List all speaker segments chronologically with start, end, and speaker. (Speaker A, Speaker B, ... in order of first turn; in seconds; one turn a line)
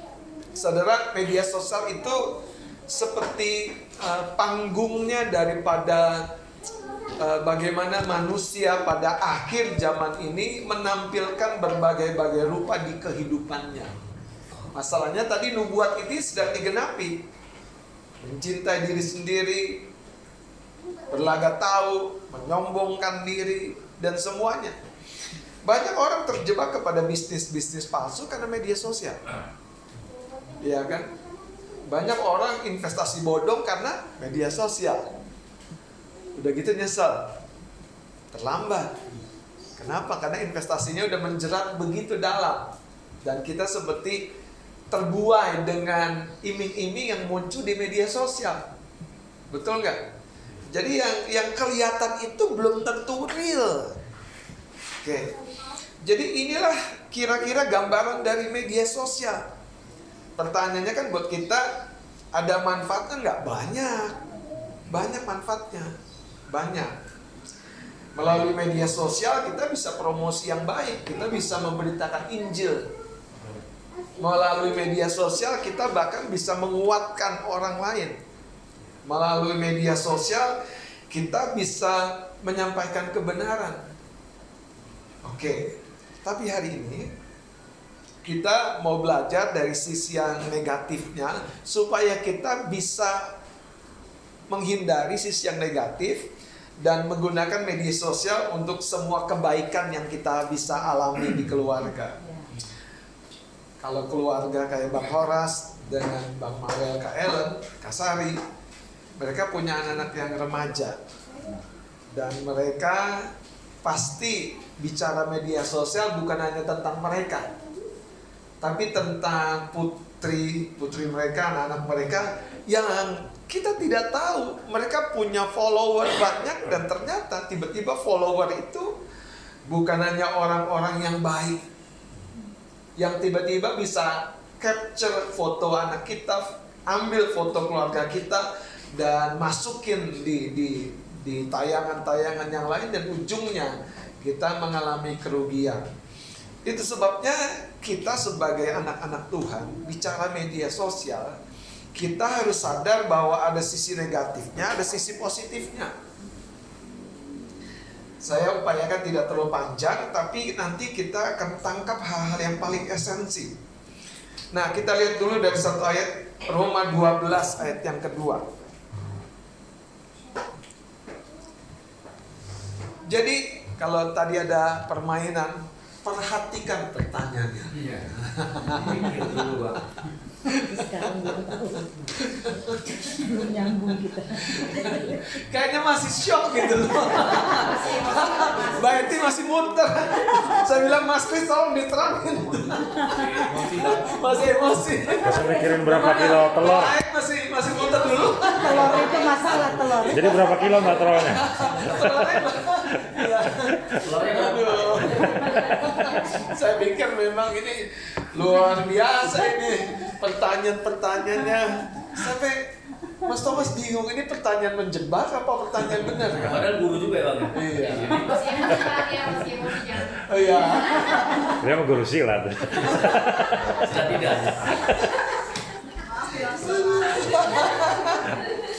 Speaker A: 0.6-6.3
Speaker A: 7.2-13.9
Speaker A: 14.7-17.2
Speaker A: 18.2-19.9
Speaker A: 21.1-24.8
Speaker A: 25.6-29.2
Speaker A: 30.6-31.1
Speaker A: 31.9-35.1
Speaker A: 36.4-37.3
Speaker A: 38.3-39.0
Speaker A: 39.8-44.3
Speaker A: 44.9-48.7
Speaker A: 49.5-50.1
Speaker A: 50.7-54.0
Speaker A: 55.0-55.4
Speaker A: 56.0-59.4
Speaker A: 60.4-61.7
Speaker A: 62.3-64.2
Speaker A: 64.9-65.9
Speaker A: 66.5-66.9
Speaker A: 68.1-72.9
Speaker A: 74.2-78.2
Speaker A: 79.0-80.6
Speaker A: 81.1-83.8
Speaker A: 85.2-87.1
Speaker A: 88.2-93.3
Speaker A: 94.5-96.3
Speaker A: 96.8-102.2
Speaker A: 103.8-108.4
Speaker A: 109.2-111.0
Speaker A: 112.1-113.3
Speaker A: 113.8-117.5
Speaker A: 118.6-129.0
Speaker A: 129.7-131.7
Speaker A: 133.0-145.9
Speaker A: 146.6-151.4
Speaker A: 151.9-155.9
Speaker A: 158.2-163.6
Speaker A: 164.5-168.5
Speaker A: 173.1-179.1
Speaker B: 177.7-178.1
Speaker B: 178.7-179.8
Speaker A: 180.5-181.4
Speaker C: 180.5-181.9
Speaker A: 182.1-183.4
Speaker C: 183.1-185.2
Speaker A: 184.4-216.6
Speaker D: 187.8-188.6
Speaker B: 193.1-194.3
Speaker E: 195.2-196.9
Speaker C: 198.5-200.8
Speaker E: 200.1-201.5
Speaker B: 201.4-202.4
Speaker B: 203.9-205.9
Speaker B: 216.2-218.8
Speaker A: 217.5-218.4
Speaker D: 218.2-220.2
Speaker A: 220.1-221.6
Speaker E: 221.6-223.9
Speaker A: 222.8-223.6
Speaker B: 223.6-224.9
Speaker D: 226.2-227.8
Speaker A: 226.5-228.4